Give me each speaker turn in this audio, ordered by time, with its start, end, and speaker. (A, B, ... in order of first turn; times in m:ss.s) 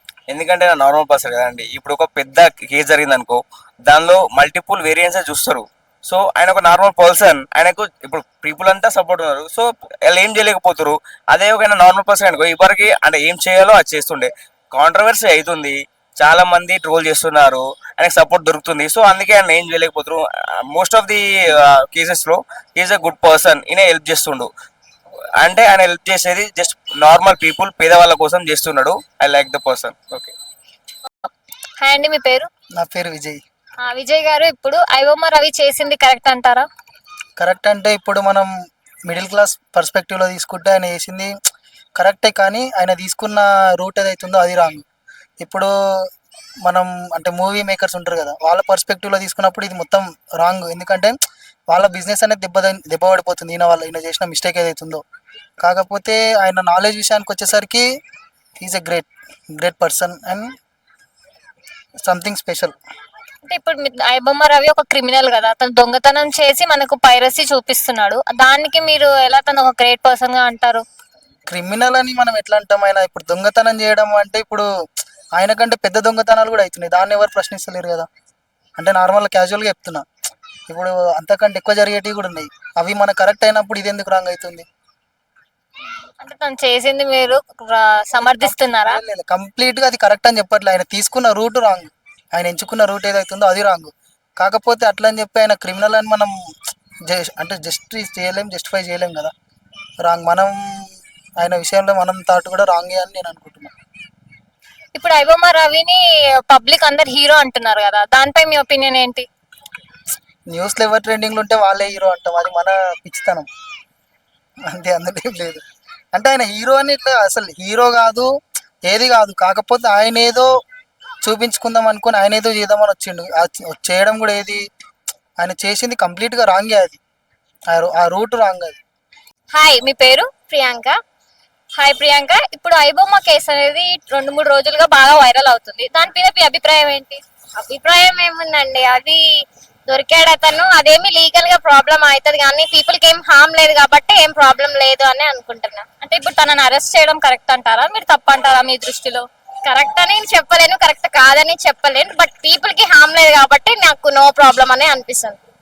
0:00.3-0:20.2 A
0:20.7-0:24.5 A
0:25.4-0:30.3 A
0:31.8-0:32.5 B
0:32.8-0:33.4 C
0:33.8-0:36.6 B
0:37.4-0:38.5 C
0:39.1-0:41.3 C
0:42.0-0:44.8 C
0:45.4-0:45.7 C
0:46.6-0:51.1 C
0:51.7-0:55.0 C
0:55.6-0:57.8 C
0:58.6-1:00.5 C
1:02.0-1:02.7 C
1:03.4-1:10.8 B
1:11.5-1:14.6 C
1:15.4-1:18.0 C
1:18.8-1:20.0 C
1:20.7-1:24.6 C
1:26.2-1:29.0 B
1:28.1-1:36.3 C
1:37.1-1:39.3 C
1:40.0-1:40.6 C
1:41.4-1:43.7 C
1:44.9-1:49.2 B
1:50.5-1:53.5 C
1:54.7-1:55.6 C
1:56.1-1:58.3 C
1:58.9-2:00.5 C
2:01.2-2:04.6 C
2:05.4-2:07.0 C
2:07.7-2:08.8 C
2:09.5-2:10.3 B
2:10.5-2:11.0 D
2:11.8-2:17.2 B
2:17.6-2:19.2 D
2:19.8-2:25.8 D
2:26.0-2:30.1 B
2:29.8-2:35.4 D